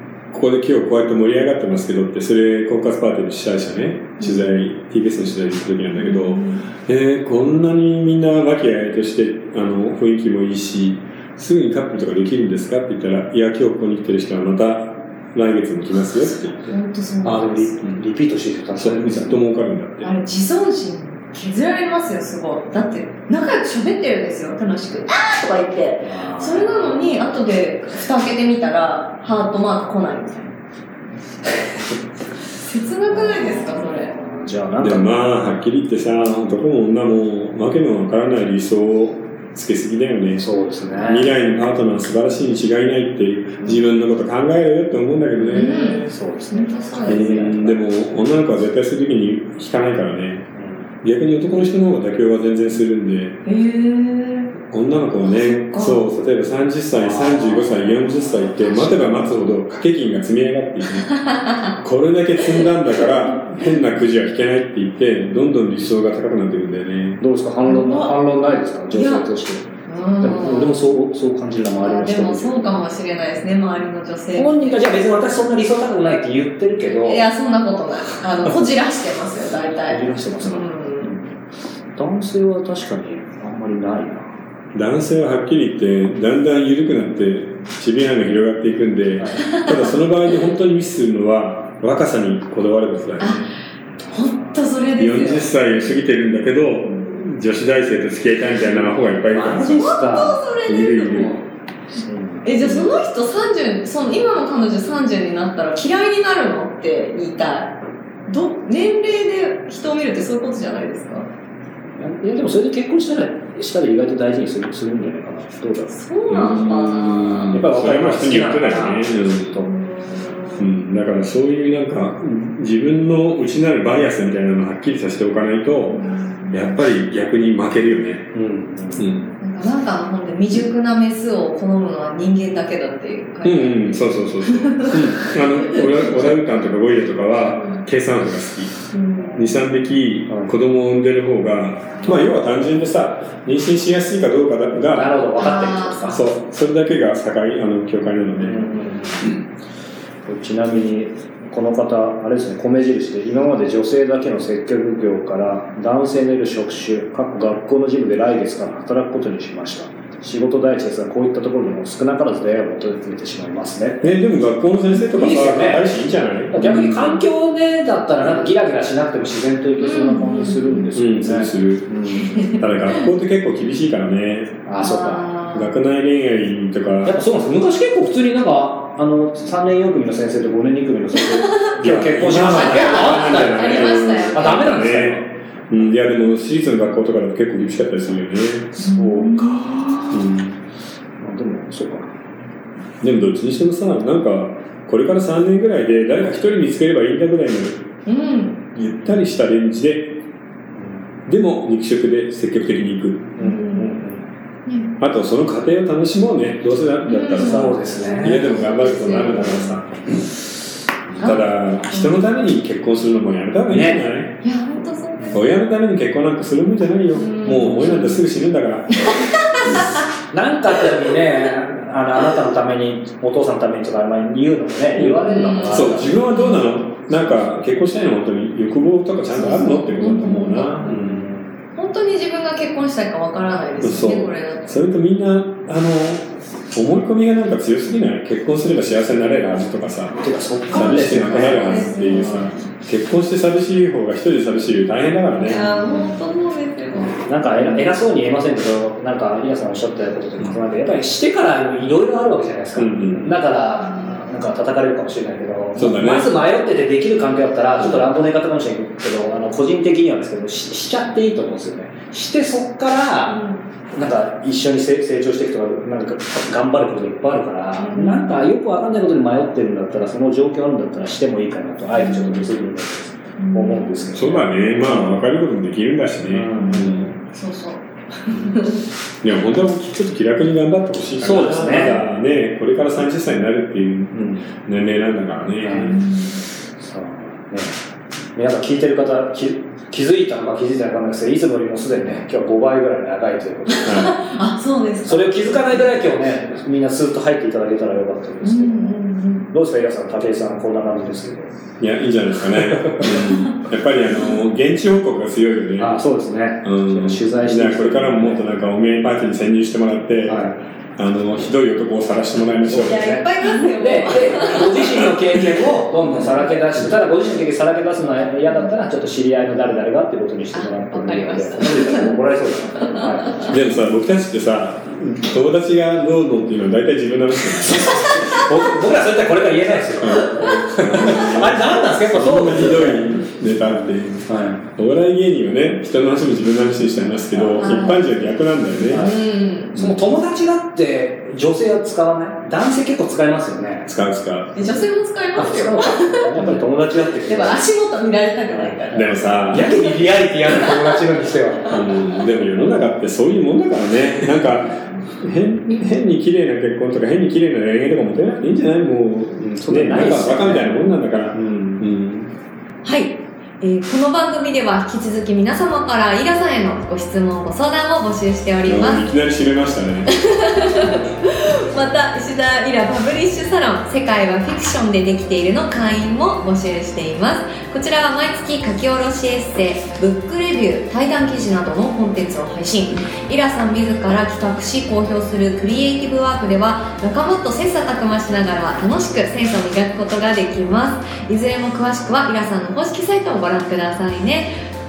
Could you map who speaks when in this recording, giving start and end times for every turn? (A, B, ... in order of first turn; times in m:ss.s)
0:00.3-0:16.5 A
0:06.0-0:06.6 B
0:16.0-0:17.8 B
0:17.2-0:19.4 C
0:18.8-0:20.1 A
0:20.0-0:30.5 B
0:26.0-0:27.2 C
0:32.6-0:34.1 B
0:33.1-0:35.2 C
0:34.8-0:45.9 A
0:40.4-0:41.3 C
0:45.4-0:47.8 C
0:45.5-0:47.5 B
0:47.0-0:50.5 A
0:50.6-0:50.8 C
0:51.0-0:53.4 A
0:53.4-0:54.5 B
0:54.6-1:01.2 A
0:55.2-0:56.0 B
0:56.9-0:57.8 C
1:01.1-1:01.7 B
1:01.8-1:07.2 A
1:07.2-1:12.8 C
1:07.6-1:08.1 B
1:08.9-1:09.2 B
1:09.9-1:10.8 B
1:11.8-1:15.0 B
1:14.3-1:17.2 C
1:17.0-1:21.1 B
1:19.9-1:21.4 C
1:22.0-1:24.3 C
1:24.7-1:33.4 A
1:29.2-1:29.5 C
1:29.5-1:29.9 B
1:33.2-1:33.5 B
1:34.1-1:34.5 C
1:34.1-1:35.5 B
1:35.0-1:39.9 A
1:38.6-1:40.4 C
1:39.7-1:41.4 B
1:40.7-1:41.4 A
1:42.0-1:42.4 C
1:42.4-1:47.7 B
1:42.6-1:42.9 A
1:48.3-1:51.3 B
1:52.0-1:55.9 C
1:55.9-1:57.6 B
1:56.3-1:59.6 A
1:57.5-1:59.7 C
1:59.6-2:00.6 B
2:00.6-2:08.3 A
2:05.9-2:06.6 B
2:08.3-2:09.3 C
2:08.9-2:09.2 A
2:09.4-2:15.8 B
2:13.4-2:18.8 A
2:18.9-2:19.6 B
2:19.3-2:25.1 A
2:24.9-2:26.2 C
2:25.4-2:26.2 B
2:26.1-2:28.8 A
2:28.4-2:29.4 C
2:30.3-2:44.1 C
2:44.0-2:47.2 A
2:45.1-2:45.9 C
2:46.5-2:52.4 C
2:49.8-2:50.8 B
2:50.9-2:51.9 A
2:52.2-2:52.6 B
2:52.4-2:54.6 A
2:54.6-2:55.3 C
2:54.8-2:55.7 B
2:55.5-2:57.2 A
2:57.0-3:05.3 C
3:01.3-3:01.8 B
3:01.8-3:08.8 A
3:02.5-3:04.7 B
3:08.8-3:10.2 C
3:08.8-3:10.2 B
3:10.1-3:10.5 A
3:11.2-3:12.1 C
3:13.0-3:17.9 A
3:18.0-3:18.6 B
3:18.7-3:20.2 A
3:21.2-3:23.3 A
3:23.4-3:24.2 C
3:23.4-3:24.0 B
3:24.6-3:24.9 B
3:25.0-3:30.0 A
3:27.0-3:29.6 B
3:27.3-3:28.5 C
3:31.2-3:34.4 A
3:31.2-3:32.2 B
3:33.7-3:34.1 C
3:34.4-3:35.5 B
3:35.3-3:39.1 A
3:37.1-3:38.1 B
3:39.1-3:40.0 B
3:40.3-3:46.2 C
3:45.0-3:51.2 A
3:45.2-3:46.6 B
3:47.1-3:47.5 C
3:49.3-3:50.9 B
3:50.8-3:51.5 C
3:51.7-3:54.7 B
3:53.8-4:00.2 A
4:00.2-4:02.5 C
4:00.7-4:02.6 B
4:00.7-4:05.8 A
4:05.4-4:07.8 B
4:07.1-4:23.4 C
4:12.8-4:13.4 A
4:13.8-4:14.2 B
4:15.7-4:16.3 A
4:23.3-4:23.6 B
4:23.9-4:35.1 C
4:27.8-4:28.4 B
4:31.9-4:32.4 B
4:33.4-4:34.0 B
4:34.1-4:37.2 A
4:36.3-4:37.1 C
4:36.6-4:38.8 B
4:39.2-4:46.0 A
4:41.2-4:42.0 C
4:44.1-4:44.4 C
4:45.6-4:46.0 C
4:45.8-4:46.4 B
4:46.8-4:47.8 C
4:48.3-4:54.1 C
4:53.7-4:55.8 B
4:53.8-4:54.1 A
4:55.0-5:01.5 C
4:58.4-4:59.5 B
5:01.8-5:06.0 A
5:02.6-5:03.2 C
5:05.8-5:08.4 C
5:06.6-5:13.0 A
5:10.2-5:10.5 C
5:12.6-5:23.5 C
5:12.8-5:14.9 B
5:20.5-5:22.2 B
5:22.8-5:23.5 B
5:23.4-5:28.6 A
5:28.3-5:33.0 C
5:30.0-5:39.1 A
5:33.7-5:34.6 C
5:37.3-5:37.9 C
5:37.6-5:38.0 B
5:38.8-5:43.9 C
5:39.0-5:39.8 B
5:43.8-5:44.5 A
5:44.5-5:46.3 B
5:45.3-5:47.6 C
5:47.3-5:51.0 B
5:48.5-5:51.8 C
5:48.9-5:49.8 A
5:51.7-6:02.3 A
5:59.4-6:01.9 C
6:02.8-6:09.1 B
6:08.6-6:10.9 A
6:10.1-6:34.5 B